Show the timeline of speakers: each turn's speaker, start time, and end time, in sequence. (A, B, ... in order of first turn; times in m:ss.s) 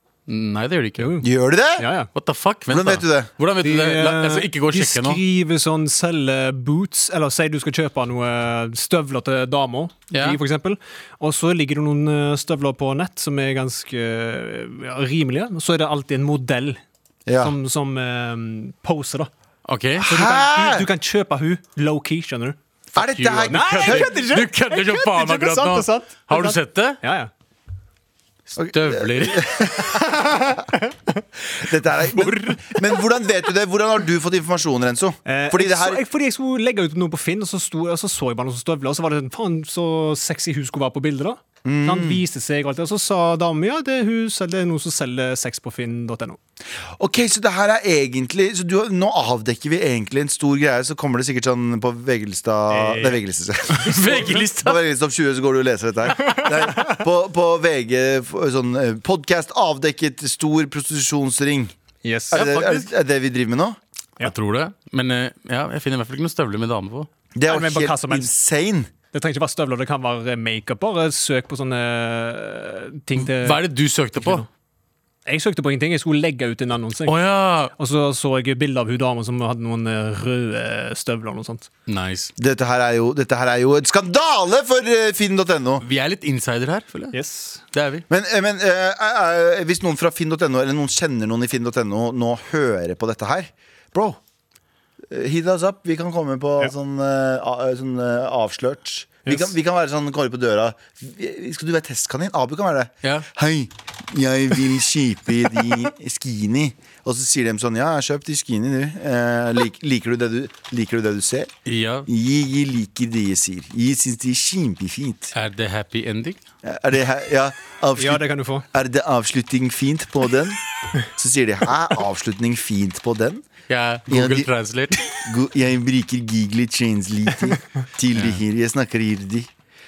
0:00.3-0:01.1 A
0:01.0-0:02.1 B
0:01.2-0:01.9 C
0:02.1-0:05.2 A
0:02.7-0:03.3 C
0:03.6-0:16.8 B
0:10.1-0:10.4 A
0:17.2-0:17.5 C
0:17.4-0:19.3 B
0:19.6-0:20.1 A
0:20.0-0:20.9 C
0:20.0-0:22.6 B
0:22.9-0:24.1 C
0:23.0-0:27.0 A
0:23.5-0:27.3 B
0:28.6-0:29.6 A
0:28.6-0:30.6 C
0:29.9-0:31.2 B
0:31.5-0:36.0 C
0:32.2-0:33.0 B
0:35.2-0:46.4 B
0:41.6-0:42.2 C
0:46.9-1:01.7 C
0:52.7-0:53.2 B
0:53.7-0:54.8 A
0:56.4-0:56.8 B
1:02.0-1:02.4 B
1:02.3-1:03.8 C
1:02.3-1:02.9 A
1:04.2-1:07.1 A
1:07.4-1:08.9 C
1:07.5-1:08.3 B
1:09.1-1:13.6 B
1:13.2-1:14.4 A
1:14.2-1:14.5 B
1:15.2-1:17.2 B
1:17.0-1:17.7 A
1:17.7-1:21.7 B
1:21.9-1:22.3 A
1:22.4-1:25.8 C
1:25.8-1:27.1 A
1:27.1-1:27.6 B
1:27.7-1:28.0 A
1:28.1-1:34.2 C
1:35.1-1:51.5 C
1:39.2-1:39.5 B
1:51.6-1:52.1 A
1:52.1-1:55.3 C
1:55.3-1:56.4 A
1:56.6-2:03.5 C
1:58.0-1:58.6 B
2:03.7-2:05.2 A
2:04.1-2:04.5 C
2:05.2-2:09.5 C
2:08.1-2:08.4 A